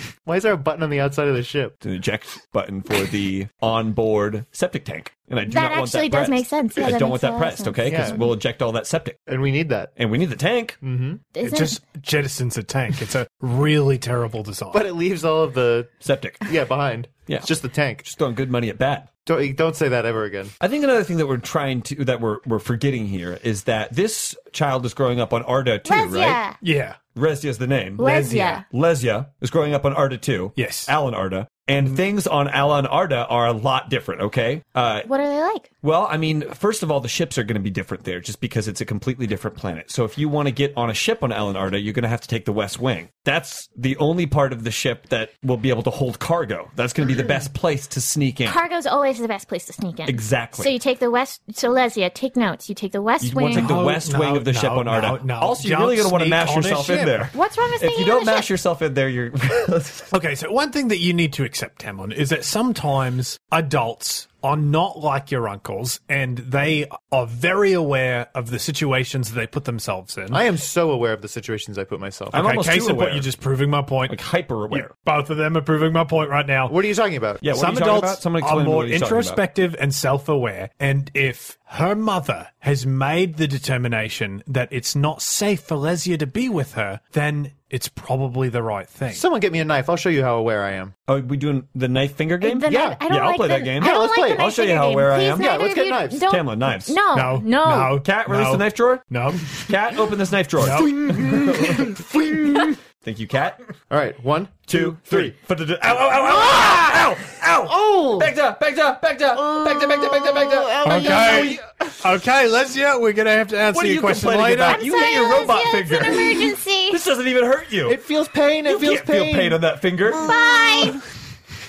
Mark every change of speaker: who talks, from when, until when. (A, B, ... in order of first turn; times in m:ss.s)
0:00.2-0:01.8 A
0:01.8-0:09.2 B
0:05.5-0:08.0 C
0:07.8-0:08.2 A
0:09.3-0:09.9 A
0:10.0-0:10.8 B
0:10.8-0:11.2 A
0:11.4-0:11.7 C
0:11.4-0:14.8 D
0:14.7-0:15.9 A
0:16.0-0:16.5 B
0:16.4-0:18.1 A
0:18.0-0:19.1 B
0:19.2-0:20.5 A
0:20.6-0:26.4 B
0:25.8-0:26.5 C
0:26.6-0:27.0 D
0:27.1-0:35.1 B
0:28.0-0:28.6 C
0:28.0-0:28.6 D
0:30.6-0:30.9 D
0:35.1-0:35.6 C
0:35.8-0:48.6 B
0:48.4-0:53.7 C
0:50.0-0:50.7 B
0:53.2-1:00.1 B
0:53.5-0:57.3 D
0:57.3-0:58.5 C
1:00.1-1:10.4 D
1:10.3-1:12.4 A
1:12.3-1:13.3 B
1:12.3-1:14.2 D
1:14.1-1:14.9 B
1:14.7-1:16.8 D
1:16.7-1:17.4 A
1:17.4-1:19.4 B
1:17.5-1:29.2 D
1:29.1-1:30.9 A
1:31.1-1:35.6 B
1:32.4-1:37.9 C
1:32.6-1:33.1 A
1:33.8-1:34.5 A
1:35.3-1:36.3 A
1:36.1-1:37.0 B
1:37.0-1:40.0 D
1:37.8-1:42.1 B
1:40.6-1:41.8 D
1:41.0-1:42.8 A
1:42.6-1:43.6 B
1:43.9-1:45.3 A
1:44.7-1:51.6 B
1:50.4-1:51.6 A
1:50.8-1:55.0 D
1:53.7-1:58.0 B
1:54.7-1:56.9 C
1:57.8-1:59.6 A
1:58.6-2:00.3 B
2:00.2-2:01.0 C